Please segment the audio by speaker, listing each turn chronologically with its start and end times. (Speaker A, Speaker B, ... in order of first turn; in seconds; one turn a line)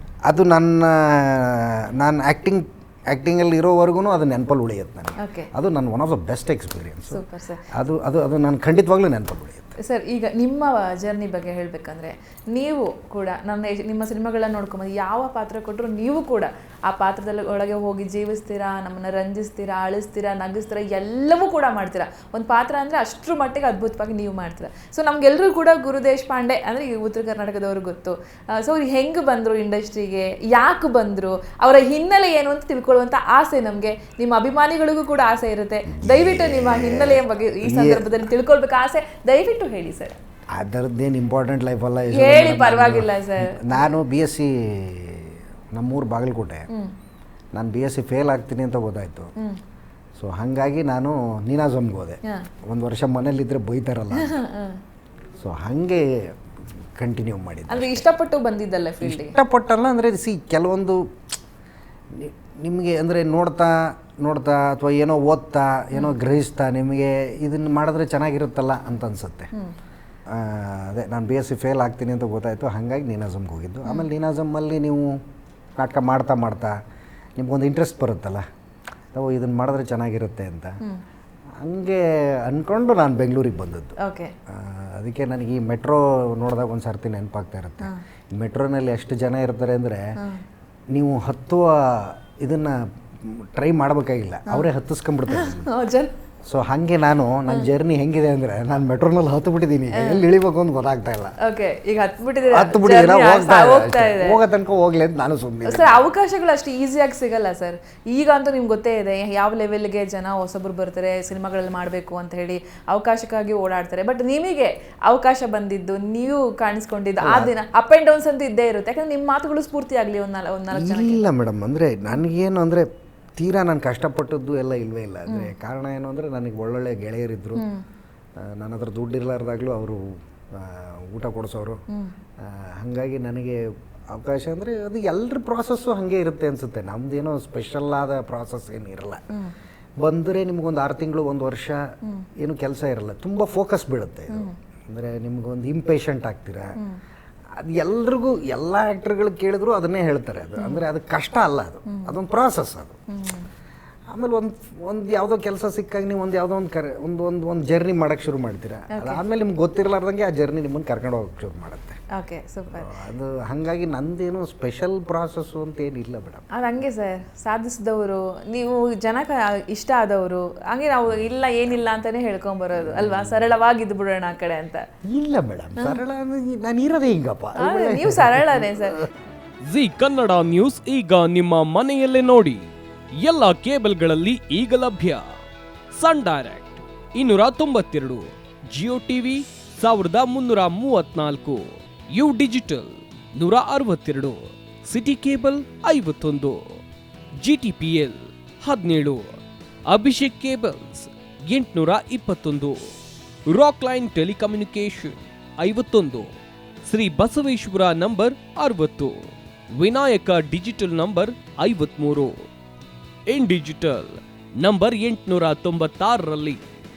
Speaker A: 0.3-9.8
Speaker B: 5.2-5.5
Speaker B: 7.1-7.6
Speaker B: 9.8-40.2
Speaker A: 35.9-38.1
Speaker A: 40.5-46.7
Speaker B: 42.1-44.0
Speaker A: 47.5-49.3
Speaker A: 50.2-54.4
Speaker B: 54.1-54.8
Speaker A: 55.4-56.3
Speaker A: 57.0-58.0
Speaker B: 57.7-59.4
Speaker A: 59.0-61.2
Speaker A: 62.1-69.5
Speaker A: 70.3-75.2
Speaker A: 75.8-76.8
Speaker A: 77.4-78.4
Speaker A: 79.1-80.8
Speaker A: 81.6-90.0
Speaker B: 84.0-84.3
Speaker A: 90.9-95.7
Speaker B: 95.3-96.1
Speaker A: 96.5-101.3
Speaker B: 100.0-100.2
Speaker B: 101.4-104.4
Speaker A: 102.5-106.0
Speaker B: 105.6-121.2
Speaker A: 117.2-117.5
Speaker A: 120.7-127.6
Speaker B: 127.5-127.8
Speaker A: 128.4-131.8
Speaker A: 132.4-139.2
Speaker A: 140.0-146.8
Speaker A: 147.6-153.0
Speaker B: 150.6-150.8
Speaker B: 151.9-152.1
Speaker B: 153.1-153.5
Speaker A: 154.1-162.0
Speaker B: 158.9-159.2
Speaker B: 162.1-162.9
Speaker A: 162.7-166.4
Speaker B: 166.6-174.8
Speaker A: 175.0-178.9
Speaker B: 175.8-176.0
Speaker B: 177.6-179.0
Speaker C: 179.6-182.6
Speaker C: 183.2-185.2
Speaker C: 185.9-196.8
Speaker C: 197.4-199.4
Speaker C: 199.9-202.9
Speaker C: 203.5-206.3
Speaker C: 206.8-212.4
Speaker C: 213.3-216.6